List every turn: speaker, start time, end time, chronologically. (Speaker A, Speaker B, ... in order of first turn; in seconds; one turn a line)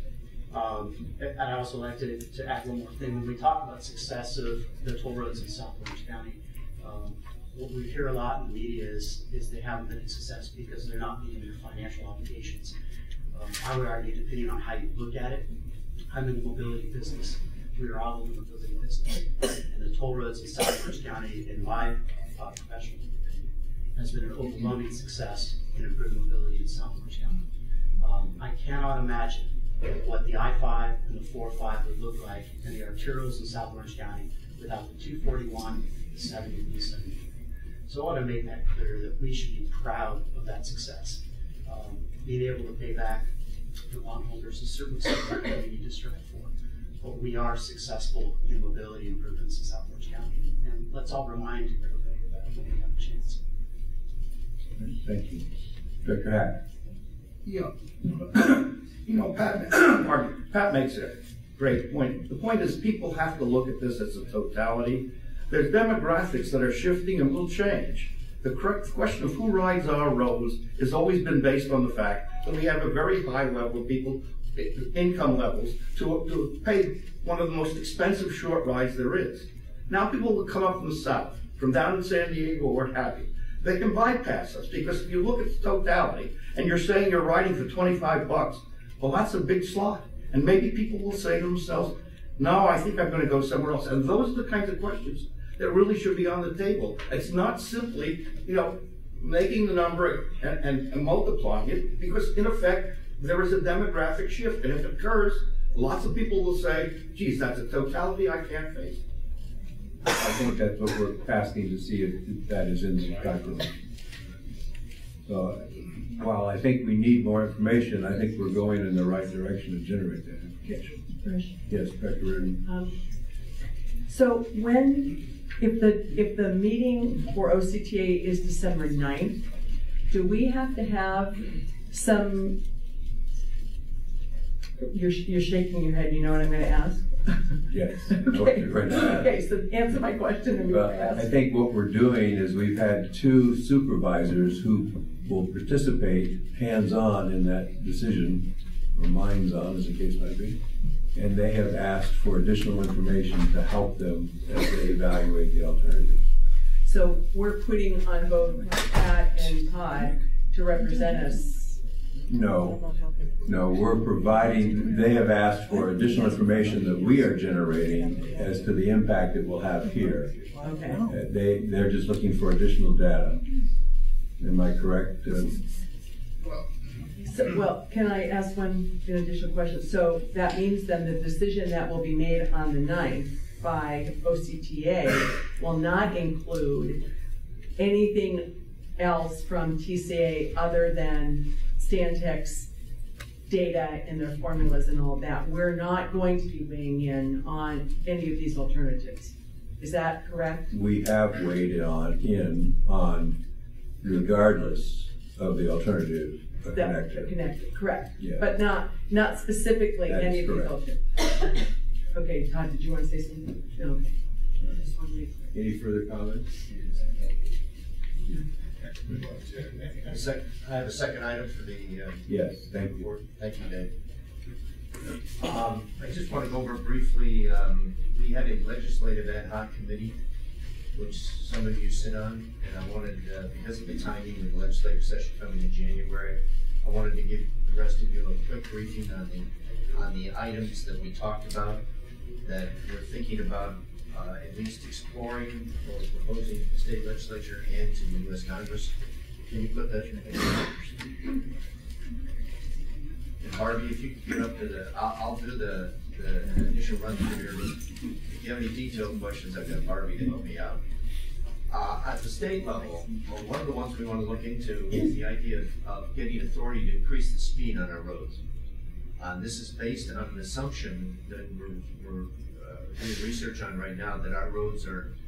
Speaker A: 0.5-12.7
Speaker A: 13.3-15.5
Speaker A: 16.1-23.4
Speaker A: 23.9-27.4
Speaker A: 28.0-37.2
Speaker A: 37.9-43.3
Speaker A: 43.9-53.4
Speaker B: 54.8-55.4
Speaker B: 56.0-56.5
Speaker C: 57.4-109.0
Speaker B: 110.1-113.7
Speaker B: 115.3-120.8
Speaker D: 120.6-121.6
Speaker B: 121.7-122.6
Speaker D: 122.6-123.0
Speaker D: 124.1-129.4
Speaker D: 130.1-132.6
Speaker D: 134.8-141.3
Speaker B: 137.7-139.3
Speaker B: 140.7-150.6
Speaker B: 151.1-156.2
Speaker D: 156.8-161.8
Speaker B: 162.3-162.8
Speaker B: 163.4-170.5
Speaker D: 170.6-171.1
Speaker B: 171.0-173.4
Speaker B: 174.4-175.6
Speaker D: 177.2-187.0
Speaker D: 187.8-192.7
Speaker D: 193.5-200.7
Speaker B: 200.7-203.3
Speaker B: 204.0-207.3
Speaker D: 206.7-211.5
Speaker B: 208.2-208.5
Speaker B: 210.1-210.7
Speaker D: 212.1-215.5
Speaker B: 215.5-216.8
Speaker E: 220.1-223.9
Speaker B: 222.3-223.1
Speaker E: 225.4-230.2
Speaker E: 230.9-241.8
Speaker E: 242.4-248.9
Speaker E: 249.5-251.1
Speaker E: 253.4-257.8
Speaker E: 258.4-260.8
Speaker E: 261.7-268.4
Speaker E: 269.2-275.1